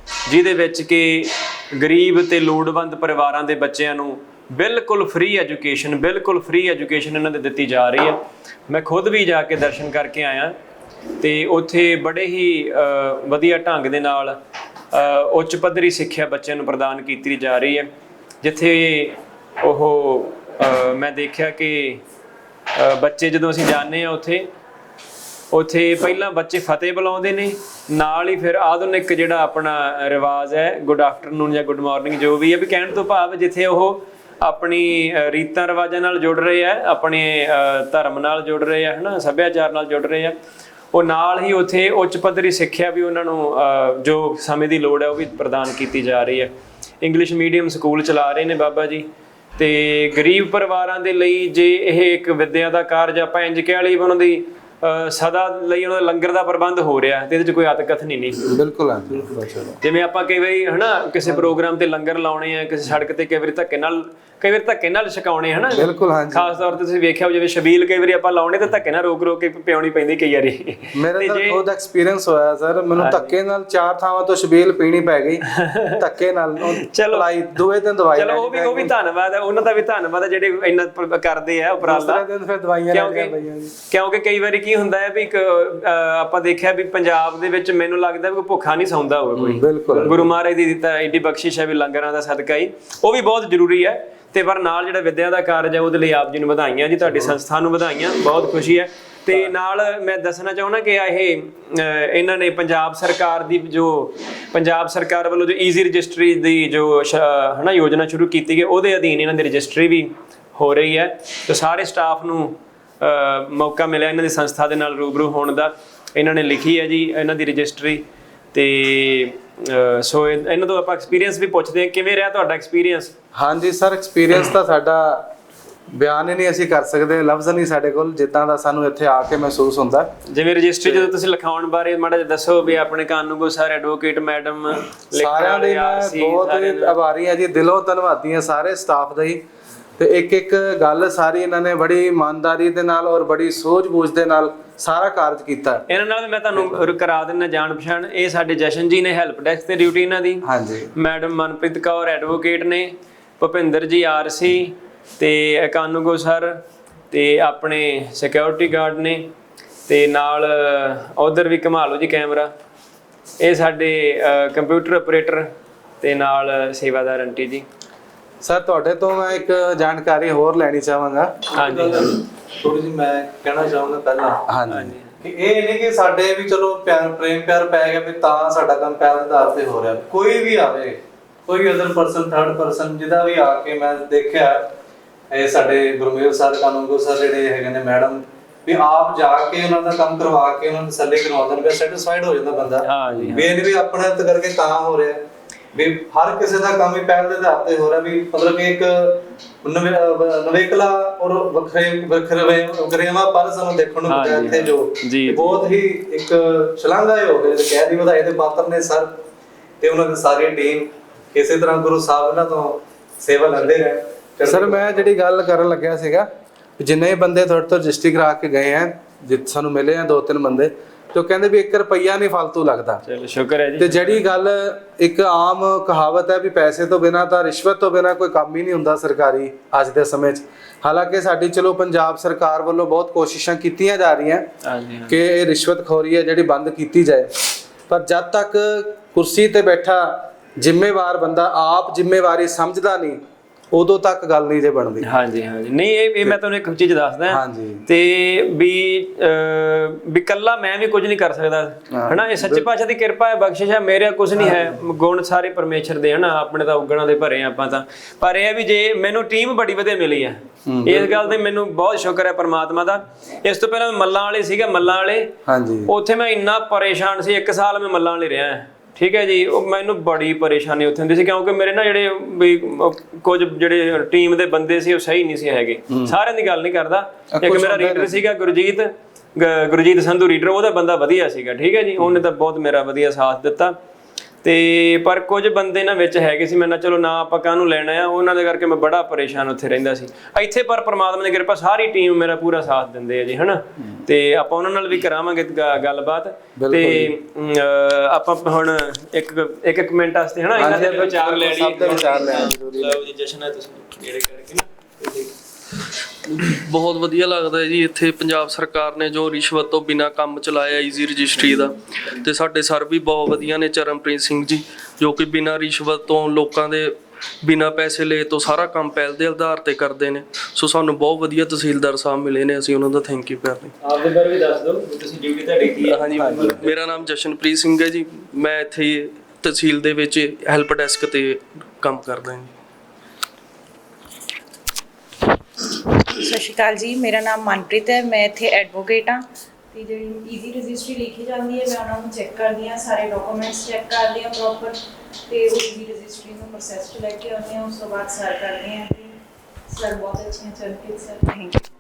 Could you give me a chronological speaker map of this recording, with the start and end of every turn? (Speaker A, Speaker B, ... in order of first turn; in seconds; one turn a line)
Speaker A: 0.3-10.6
Speaker A: 11.2-14.4
Speaker A: 14.9-17.9
Speaker A: 18.4-22.0
Speaker A: 22.7-24.5
Speaker A: 25.5-40.4
Speaker A: 40.9-46.5
Speaker A: 47.0-49.1
Speaker A: 49.6-58.4
Speaker B: 58.5-59.8
Speaker A: 59.8-71.6
Speaker B: 61.2-61.5
Speaker B: 65.7-66.6
Speaker B: 71.0-78.9
Speaker A: 73.0-73.3
Speaker A: 75.6-76.0
Speaker A: 76.9-77.3
Speaker A: 78.2-82.2
Speaker B: 81.8-83.7
Speaker A: 82.9-83.3
Speaker A: 83.9-118.0
Speaker B: 89.4-90.3
Speaker B: 97.1-97.3
Speaker A: 118.5-123.1
Speaker B: 123.3-125.3
Speaker B: 125.9-130.1
Speaker A: 130.3-137.0
Speaker B: 130.8-131.1
Speaker B: 135.2-139.4
Speaker B: 140.0-145.8
Speaker A: 145.9-150.4
Speaker B: 150.4-150.9
Speaker A: 150.9-159.3
Speaker A: 159.9-162.5
Speaker A: 163.4-167.7
Speaker B: 168.4-171.5
Speaker A: 171.6-172.2
Speaker C: 171.6-172.0
Speaker C: 172.6-174.4
Speaker B: 174.5-174.9
Speaker A: 174.7-175.2
Speaker C: 175.2-184.7
Speaker C: 185.3-192.8
Speaker A: 192.8-193.6
Speaker C: 193.4-209.2
Speaker A: 204.1-205.7
Speaker C: 209.8-214.8
Speaker B: 214.4-223.0
Speaker A: 223.1-224.2
Speaker B: 223.8-234.5
Speaker A: 234.6-235.2
Speaker B: 235.1-237.3
Speaker B: 237.9-243.2
Speaker B: 243.7-245.1
Speaker A: 245.0-265.3
Speaker B: 247.3-247.8
Speaker B: 251.9-252.7
Speaker B: 254.4-254.6
Speaker B: 260.7-261.2
Speaker B: 265.5-265.9
Speaker A: 265.9-283.8
Speaker B: 275.9-276.1
Speaker B: 277.4-278.1
Speaker A: 284.4-305.3
Speaker B: 296.6-297.1
Speaker B: 300.6-303.0
Speaker D: 306.5-323.7
Speaker A: 323.8-326.6
Speaker D: 325.8-332.5
Speaker E: 336.0-351.6